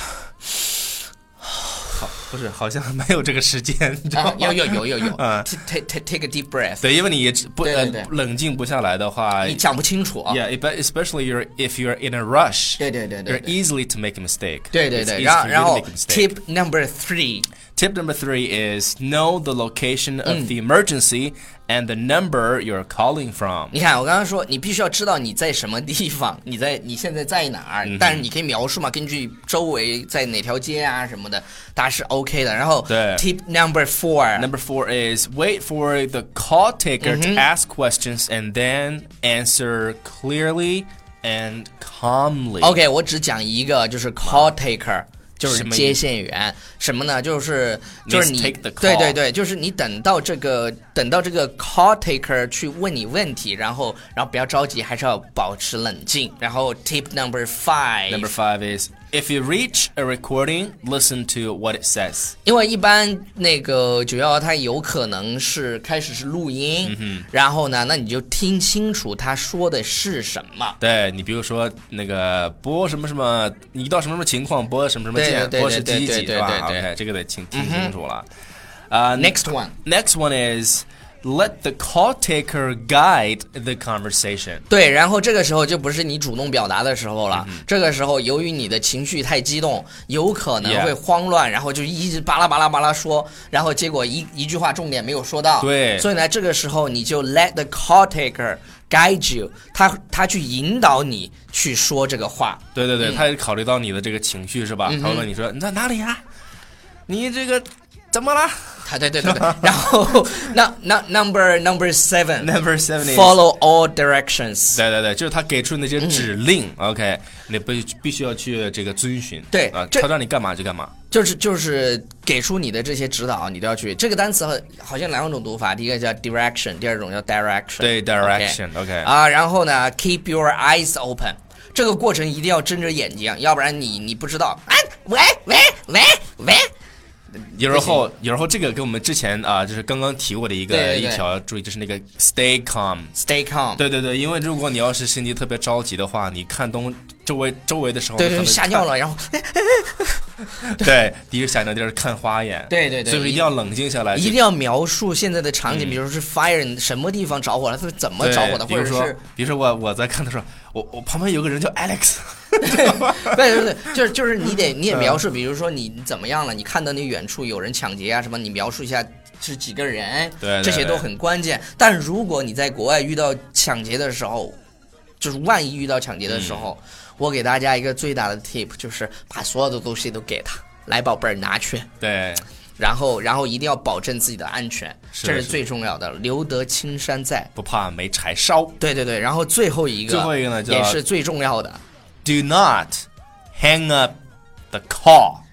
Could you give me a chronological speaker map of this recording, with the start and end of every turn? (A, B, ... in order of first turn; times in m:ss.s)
0:01.9-0:05.5 A
0:04.1-0:06.8 B
0:06.8-0:09.6 A
0:07.6-0:08.1 B
0:09.4-0:10.4 B
0:10.3-0:16.3 A
0:12.8-0:13.5 B
0:14.7-0:17.5 B
0:17.8-0:23.7 A
0:20.2-0:20.5 B
0:23.7-0:34.5 B
0:27.8-0:28.3 A
0:32.9-0:33.2 A
0:34.4-0:42.8 A
0:37.0-0:37.4 B
0:42.6-0:58.3 B
0:44.2-0:44.5 A
0:45.4-0:46.0 A
0:48.0-0:49.2 A
0:58.1-1:02.3 A
1:02.4-1:10.8 B
1:06.8-1:07.3 A
1:10.8-1:18.3 A
1:15.1-1:16.9 B
1:17.5-1:17.9 B
1:18.9-1:24.6 A
1:19.2-1:19.7 B
1:24.7-1:43.2 B
1:27.3-1:27.6 A
1:30.6-1:30.9 A
1:35.6-1:36.1 A
1:42.7-1:46.2 A
1:44.8-1:45.3 B
1:47.1-1:49.8 A
1:48.8-1:54.8 B
1:52.4-1:53.4 A
1:54.7-2:00.9 A
1:56.0-1:56.3 B
1:59.5-2:00.1 B
2:01.1-2:16.7 B
2:07.8-2:09.1 A
2:17.5-2:23.1 A
2:17.6-2:18.0 B
2:20.7-2:21.2 B
2:23.1-2:23.8 B
2:23.8-2:28.8 A
2:28.2-2:30.9 B
2:30.6-2:34.4 A
2:32.7-2:33.5 B
2:34.1-2:39.2 B
2:35.7-2:36.0 A
2:38.2-2:43.4 A
2:42.6-2:54.6 B
2:44.9-2:45.2 A
2:50.4-2:51.0 A
2:55.2-3:01.9 B
2:56.3-2:56.7 A
3:02.0-3:02.4 A
3:02.8-3:07.5 B
3:05.1-3:05.6 A
3:07.6-3:08.8 A
3:08.8-3:11.8 B
3:10.0-3:11.0 A
3:12.2-3:14.1 A
3:14.7-3:15.4 A